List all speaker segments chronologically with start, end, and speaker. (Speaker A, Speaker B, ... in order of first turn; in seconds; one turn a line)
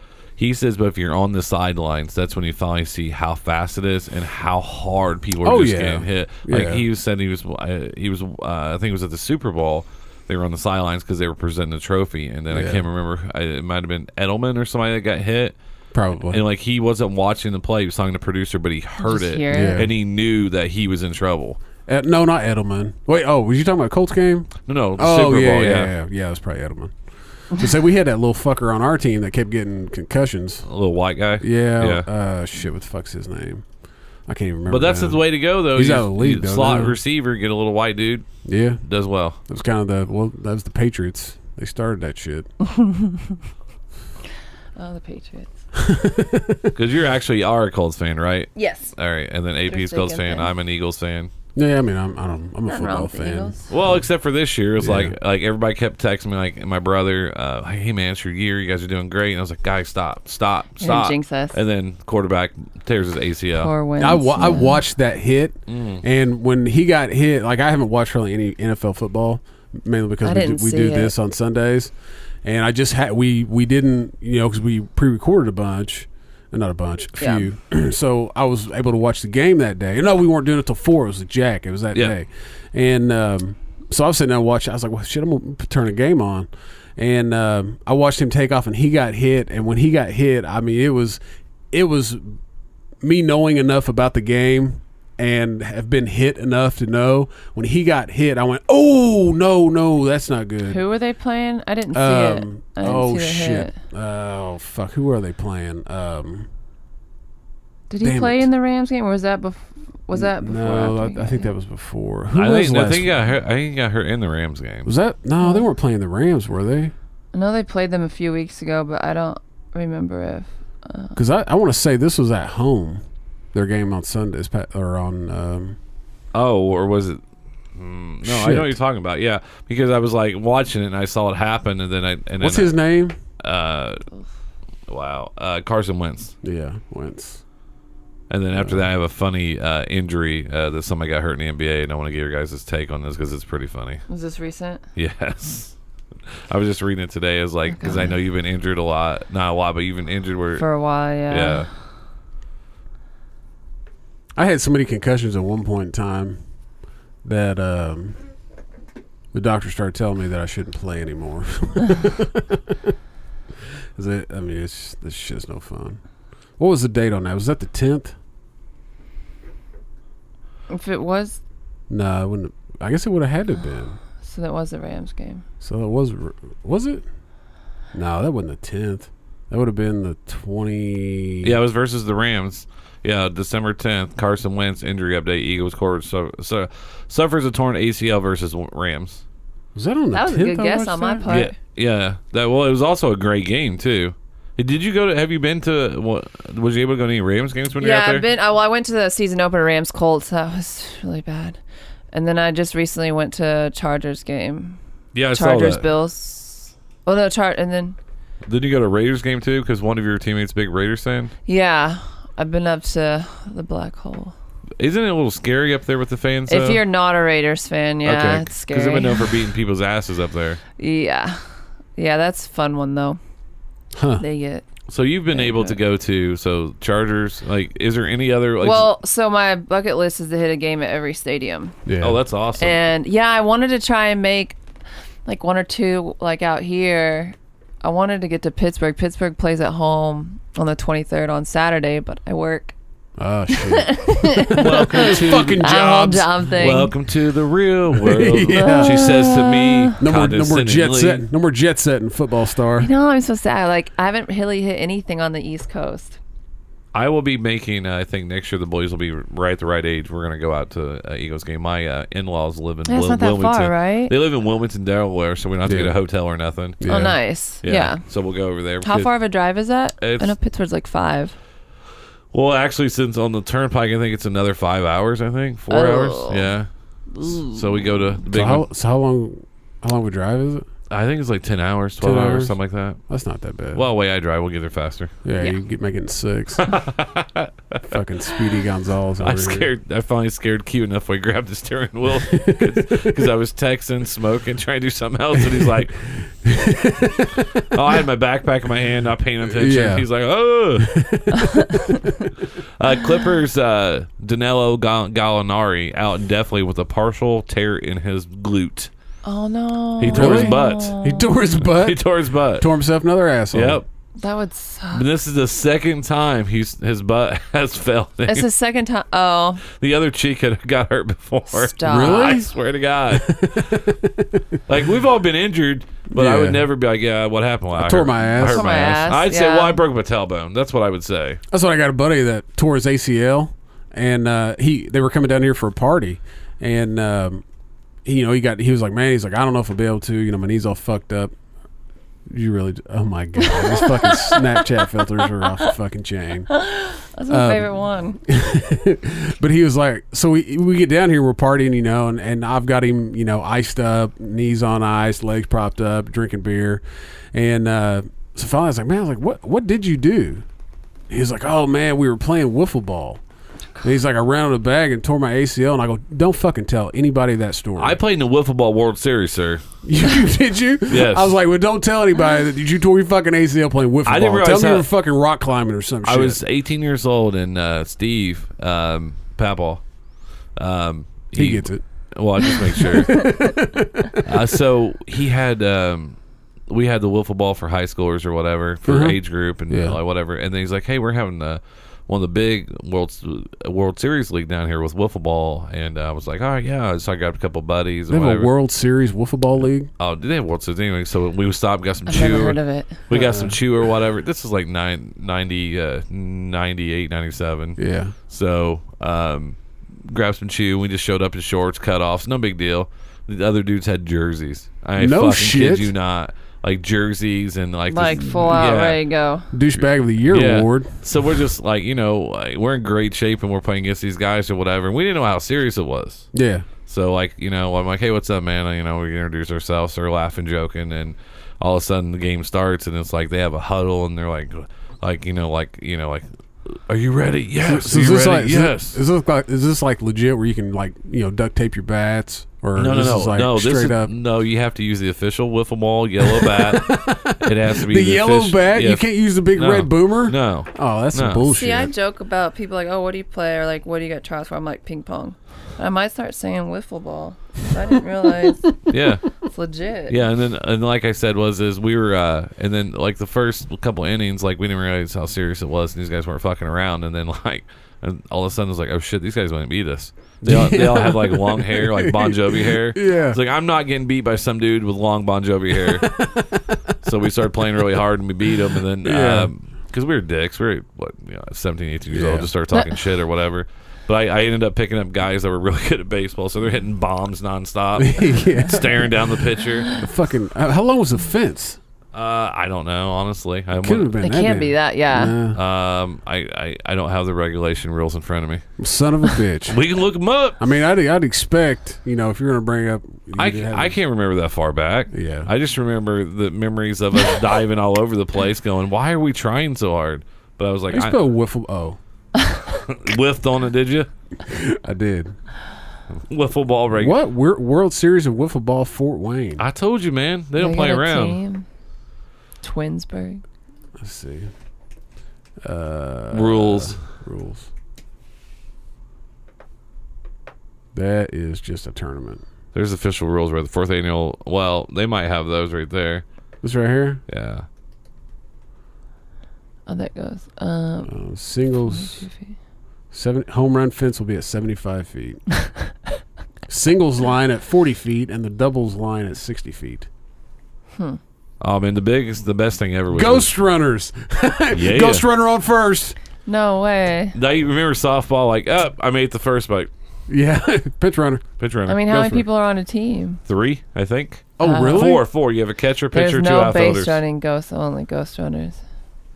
Speaker A: 0.4-15.6
Speaker B: 5.4-6.8
Speaker B: 12.5-12.8
Speaker B: 15.9-16.4
Speaker A: 16.3-21.6
Speaker C: 19.0-19.9
Speaker B: 19.5-19.9
Speaker B: 21.9-27.0
Speaker A: 24.7-25.9
Speaker B: 27.5-30.7
Speaker A: 30.7-32.1
Speaker B: 31.4-33.6
Speaker B: 34.3-37.0
Speaker A: 34.7-38.2
Speaker B: 38.5-38.8
Speaker A: 38.8-39.4
Speaker B: 39.5-42.5
Speaker C: 42.8-43.1
Speaker C: 44.8-45.5
Speaker B: 45.8-46.7
Speaker A: 46.7-51.3
Speaker C: 48.6-48.9
Speaker C: 49.7-50.5
Speaker B: 51.6-53.6
Speaker C: 52.7-53.7
Speaker A: 53.7-63.7
Speaker B: 54.8-55.1
Speaker C: 60.8-61.6
Speaker C: 63.6-64.8
Speaker B: 64.0-71.9
Speaker A: 65.7-66.0
Speaker C: 70.2-71.1
Speaker B: 72.4-91.2
Speaker C: 77.2-77.5
Speaker B: 91.7-92.4
Speaker B: 93.0-100.8
Speaker C: 100.7-103.8
Speaker B: 101.9-106.5
Speaker C: 107.9-111.5
Speaker B: 108.0-108.5
Speaker B: 110.1-113.1
Speaker A: 112.3-114.9
Speaker B: 114.8-116.9
Speaker C: 115.4-115.7
Speaker C: 117.3-121.2
Speaker B: 121.2-123.0
Speaker B: 123.5-125.8
Speaker A: 126.3-127.2
Speaker A: 127.8-132.8
Speaker B: 128.2-128.8
Speaker B: 132.4-133.2
Speaker A: 133.4-134.0
Speaker A: 134.9-136.3
Speaker B: 136.4-137.4
Speaker A: 138.3-144.0
Speaker B: 138.6-138.8
Speaker C: 144.1-144.8
Speaker A: 145.0-145.7
Speaker A: 146.5-150.7
Speaker C: 147.7-148.2
Speaker C: 150.6-151.7
Speaker A: 151.3-151.7
Speaker B: 154.4-156.4
Speaker B: 157.2-158.2
Speaker B: 159.3-162.9
Speaker B: 163.9-166.0
Speaker B: 166.6-168.2
Speaker C: 170.7-171.4
Speaker B: 171.9-174.0
Speaker C: 174.2-175.4
Speaker B: 175.6-177.1
Speaker B: 177.9-181.6
Speaker A: 181.4-189.2
Speaker B: 189.8-191.3
Speaker C: 190.1-191.5
Speaker A: 191.3-198.2
Speaker C: 197.8-201.6
Speaker C: 202.1-204.8
Speaker A: 205.2-205.9
Speaker C: 205.3-208.0
Speaker A: 208.5-211.3
Speaker C: 211.5-214.3
Speaker A: 214.8-216.8
Speaker C: 216.5-219.4
Speaker A: 218.1-220.6
Speaker C: 220.8-221.4
Speaker C: 222.0-223.2
Speaker B: 223.9-224.2
Speaker C: 224.2-224.7
Speaker A: 224.9-228.9
Speaker C: 225.3-225.8
Speaker C: 228.6-231.8
Speaker B: 231.9-232.2
Speaker A: 232.0-232.8
Speaker C: 232.6-234.6
Speaker C: 235.3-242.7
Speaker B: 243.2-246.9
Speaker C: 243.5-246.9
Speaker A: 244.5-245.7
Speaker A: 246.6-251.2
Speaker B: 247.9-249.1
Speaker C: 248.5-249.9
Speaker B: 250.0-252.9
Speaker C: 252.8-256.2
Speaker A: 256.9-266.9
Speaker C: 262.9-264.1
Speaker B: 265.6-265.9
Speaker B: 266.8-267.2
Speaker C: 266.9-268.0
Speaker A: 267.6-269.1
Speaker C: 268.8-271.4
Speaker A: 270.0-270.3
Speaker A: 272.3-276.7
Speaker C: 275.7-276.5
Speaker C: 277.1-278.1
Speaker A: 277.2-278.6
Speaker B: 278.3-280.7
Speaker A: 280.9-283.0
Speaker B: 282.0-282.6
Speaker B: 283.1-283.9
Speaker A: 283.7-285.1
Speaker B: 285.2-286.6
Speaker A: 286.6-288.0
Speaker B: 287.9-289.7
Speaker A: 289.2-296.1
Speaker B: 292.3-293.2
Speaker B: 296.4-297.6
Speaker A: 297.6-301.3
Speaker B: 299.5-300.1
Speaker B: 300.8-302.3
Speaker A: 302.8-308.9
Speaker C: 309.2-311.4
Speaker A: 310.0-311.0
Speaker B: 310.1-312.0
Speaker A: 311.6-312.7
Speaker B: 312.6-313.8
Speaker A: 313.5-313.9
Speaker C: 314.2-315.1
Speaker A: 314.9-318.5
Speaker C: 318.3-319.6
Speaker A: 319.7-323.4
Speaker C: 321.5-322.4
Speaker B: 321.9-322.5
Speaker B: 323.1-324.5
Speaker A: 324.7-331.4
Speaker B: 326.1-326.6
Speaker B: 327.8-328.9
Speaker C: 328.4-329.8
Speaker B: 331.5-337.4
Speaker B: 338.1-341.3
Speaker B: 342.3-346.5
Speaker C: 343.4-344.9
Speaker C: 346.5-348.2
Speaker B: 347.3-347.7
Speaker B: 348.2-360.4
Speaker B: 361.1-363.2
Speaker B: 363.8-368.0
Speaker A: 367.8-369.6
Speaker B: 369.8-376.4
Speaker A: 370.9-371.3
Speaker A: 374.1-374.9
Speaker A: 376.1-379.8
Speaker A: 380.6-383.4
Speaker B: 381.4-381.8
Speaker B: 382.4-384.3
Speaker A: 384.2-398.5
Speaker B: 388.9-390.0
Speaker B: 398.1-399.9
Speaker A: 400.0-419.0
Speaker C: 402.1-403.0
Speaker B: 403.1-403.6
Speaker B: 407.8-408.1
Speaker B: 415.0-415.9
Speaker C: 417.9-419.5
Speaker B: 418.3-418.6
Speaker B: 419.5-420.9
Speaker A: 420.3-426.3
Speaker B: 426.3-426.7
Speaker A: 426.9-439.0
Speaker B: 437.6-444.1
Speaker A: 442.8-451.5
Speaker B: 446.2-451.9
Speaker C: 451.6-458.7
Speaker A: 458.9-459.3
Speaker C: 459.4-460.2
Speaker A: 460.1-476.2
Speaker B: 470.4-473.4
Speaker B: 475.8-476.9
Speaker A: 477.0-489.9
Speaker B: 479.0-479.5
Speaker B: 482.1-482.5
Speaker B: 487.9-491.8
Speaker A: 492.1-494.1
Speaker B: 493.8-495.6
Speaker C: 494.2-495.4
Speaker A: 495.5-498.6
Speaker B: 498.8-499.8
Speaker A: 499.7-500.6
Speaker B: 500.6-504.0
Speaker A: 503.4-511.2
Speaker B: 505.1-505.5
Speaker B: 510.9-512.0
Speaker A: 512.8-514.1
Speaker B: 514.5-515.4
Speaker A: 516.1-517.2
Speaker B: 516.9-519.6
Speaker A: 519.6-521.4
Speaker C: 520.6-521.7
Speaker C: 522.6-523.4
Speaker B: 524.0-524.5
Speaker B: 525.6-527.7
Speaker A: 526.3-527.0
Speaker B: 530.9-532.4
Speaker A: 532.7-536.2
Speaker B: 536.6-537.2
Speaker A: 537.3-537.6
Speaker C: 539.9-541.1
Speaker B: 541.1-542.3
Speaker C: 541.9-542.6
Speaker B: 543.1-545.4
Speaker B: 546.7-550.1
Speaker A: 551.6-553.5
Speaker B: 553.1-556.2
Speaker A: 554.7-555.2
Speaker C: 556.5-557.4
Speaker A: 557.4-559.9
Speaker B: 560.3-561.5
Speaker A: 561.6-562.0
Speaker C: 561.9-563.4
Speaker B: 562.1-562.4
Speaker A: 563.5-567.2
Speaker B: 564.6-565.2
Speaker C: 564.6-565.1
Speaker C: 566.1-568.8